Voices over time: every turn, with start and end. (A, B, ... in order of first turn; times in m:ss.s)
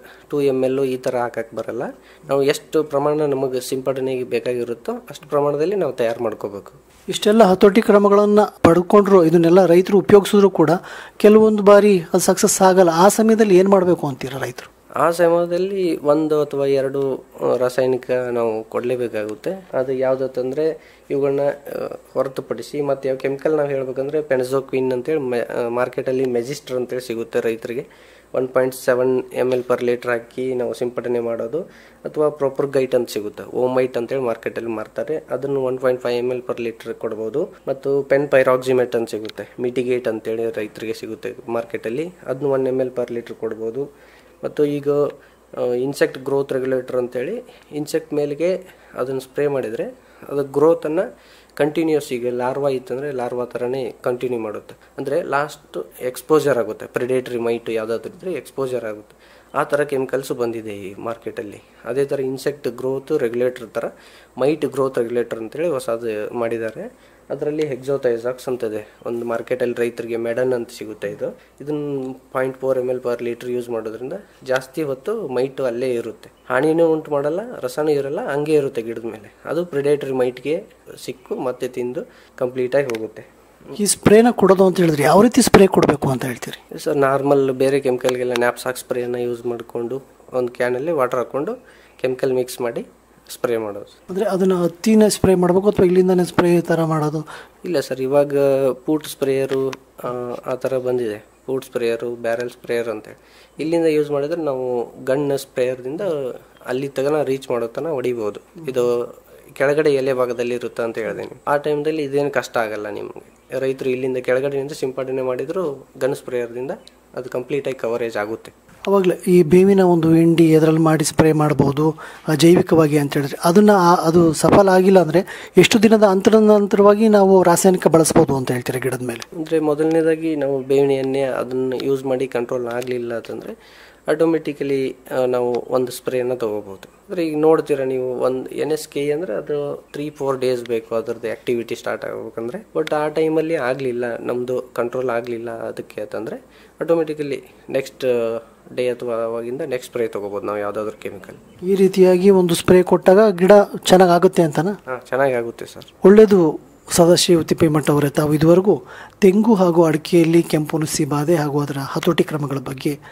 0:00.3-0:06.8 A
0:07.1-0:14.7 B
0:15.0-0:43.9 A
0:44.4-0:45.0 A
0:45.6-0:51.0 A
0:51.6-1:23.3 A
1:23.7-1:26.6 B
1:26.7-1:33.9 A
1:34.1-1:37.2 B
1:37.6-1:49.0 A
1:49.6-1:58.5 A
1:58.9-2:09.2 B
2:09.4-2:13.5 A
2:14.1-2:31.4 A
2:31.7-2:34.8 B
2:34.9-2:35.9 A
2:36.0-2:43.0 B